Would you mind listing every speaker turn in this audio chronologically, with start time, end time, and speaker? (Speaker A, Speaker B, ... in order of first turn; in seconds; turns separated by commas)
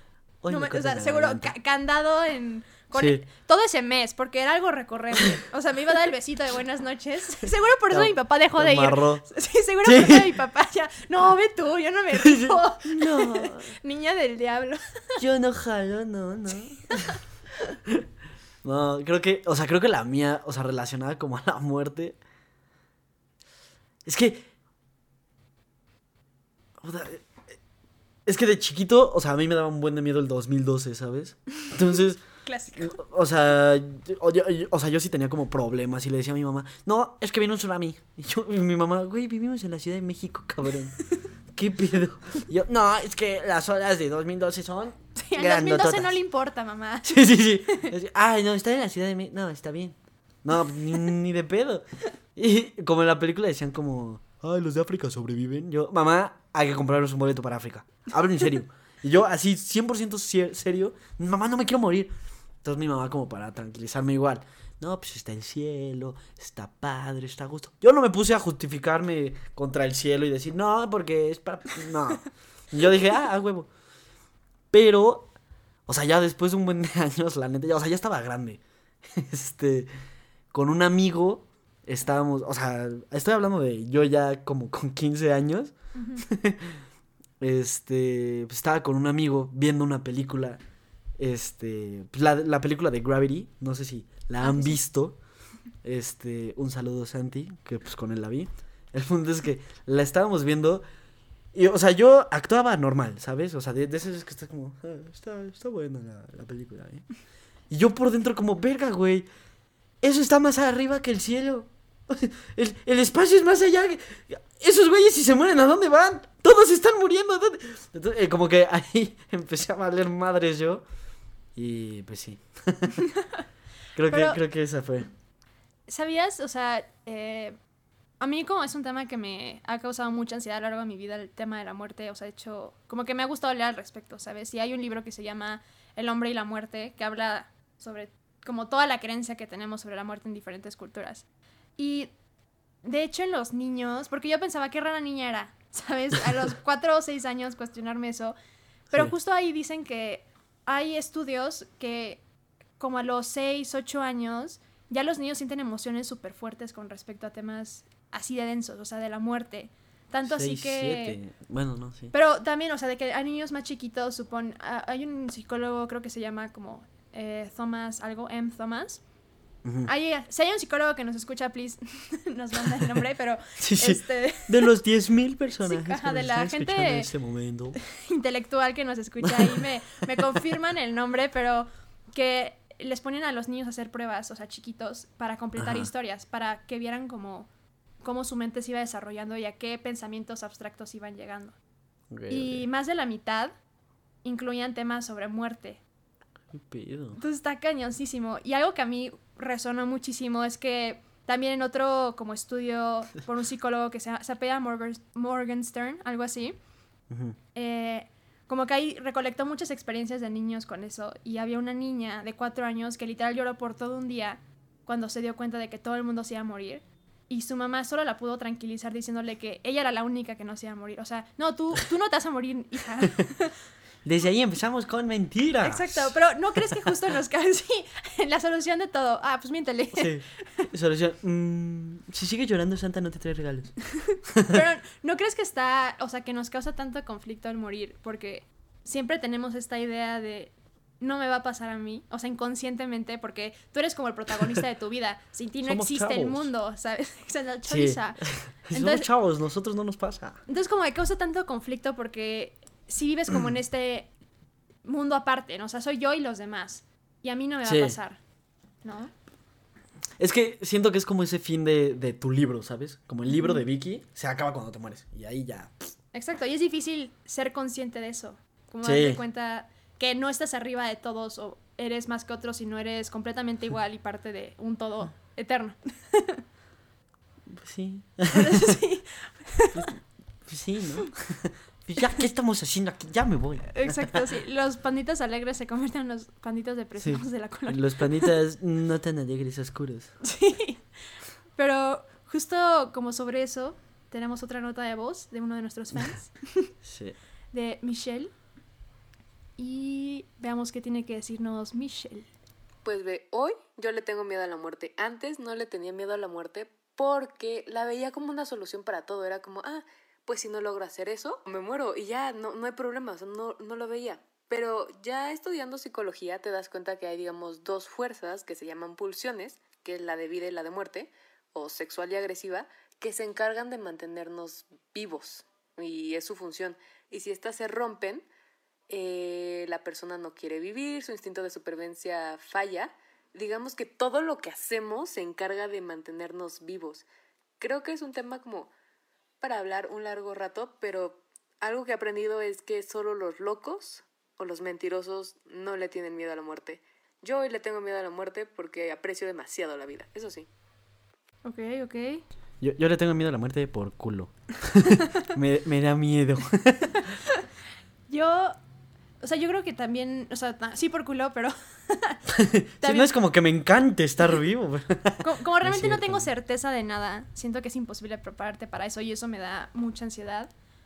Speaker A: 0.4-1.5, Speaker B: 0.5-15.2, Speaker A: 2.9-3.2, Speaker A: 7.9-9.2, Speaker A: 9.8-10.3, Speaker A: 12.2-13.7, Speaker A: 15.2-17.2, Speaker A: 18.6-22.2, Speaker A: 24.1-24.5, Speaker A: 26.8-27.4, Speaker A: 28.2-32.2, Speaker B: 32.4-32.9, Speaker A: 32.8-46.2, Speaker B: 45.1-47.9, Speaker A: 47.0-62.1, Speaker A: 62.6-73.7, Speaker A: 74.7-75.3, Speaker A: 75.9-79.9, Speaker A: 80.5-86.8, Speaker B: 85.9-86.2, Speaker A: 87.4-90.6, Speaker A: 91.2-95.2, Speaker B: 94.4-94.8, Speaker A: 95.8-100.8, Speaker A: 101.5-107.1, Speaker A: 107.7-109.3, Speaker A: 110.0-120.8, Speaker A: 121.5-123.0, Speaker B: 123.1-123.4, Speaker A: 123.9-125.1, Speaker B: 124.1-124.4, Speaker B: 125.9-127.6, Speaker B: 128.2-141.2, Speaker B: 141.8-142.1, Speaker B: 142.8-148.3, Speaker B: 148.9-152.2, Speaker B: 152.8-161.2, Speaker A: 160.2-162.1, Speaker B: 162.1-169.0, Speaker A: 169.6-169.9, Speaker B: 169.8-174.7, Speaker A: 173.6-177.8, Speaker B: 175.6-177.1, Speaker B: 177.8-187.5, Speaker A: 179.2-179.6, Speaker A: 185.6-185.9, Speaker B: 188.0-191.5, Speaker A: 192.1-192.6, Speaker B: 192.3-193.5, Speaker B: 194.2-195.8, Speaker A: 196.5-197.2, Speaker B: 197.2-206.6, Speaker A: 207.1-207.4, Speaker B: 207.5-223.5, Speaker A: 224.0-226.1, Speaker B: 225.6-230.7, Speaker A: 229.9-234.6, Speaker B: 234.5-249.1, Speaker A: 245.6-246.5, Speaker A: 247.7-250.4, Speaker B: 250.5-254.1, Speaker B: 254.8-258.2, Speaker A: 257.6-257.9, Speaker B: 258.8-259.1, Speaker A: 260.2-265.9, Speaker B: 263.3-263.6, Speaker B: 266.1-276.4, Speaker A: 268.8-269.2, Speaker A: 277.5-278.8, Speaker B: 278.3-279.9, Speaker A: 279.7-284.1, Speaker B: 283.7-288.3, Speaker A: 286.9-290.2, Speaker B: 290.2-290.8, Speaker B: 291.6-296.7, Speaker A: 296.8-297.2, Speaker B: 297.5-298.3, Speaker B: 299.6-302.3, Speaker C: 302.8-328.3, Speaker C: 328.9-337.1, Speaker C: 337.6-338.7, Speaker C: 339.4-350.5, Speaker B: 351.4-352.2, Speaker A: 352.6-357.1, Speaker B: 358.1-358.6, Speaker B: 359.2-362.2, Speaker A: 362.3-366.3, Speaker B: 362.8-363.1, Speaker B: 365.2-370.5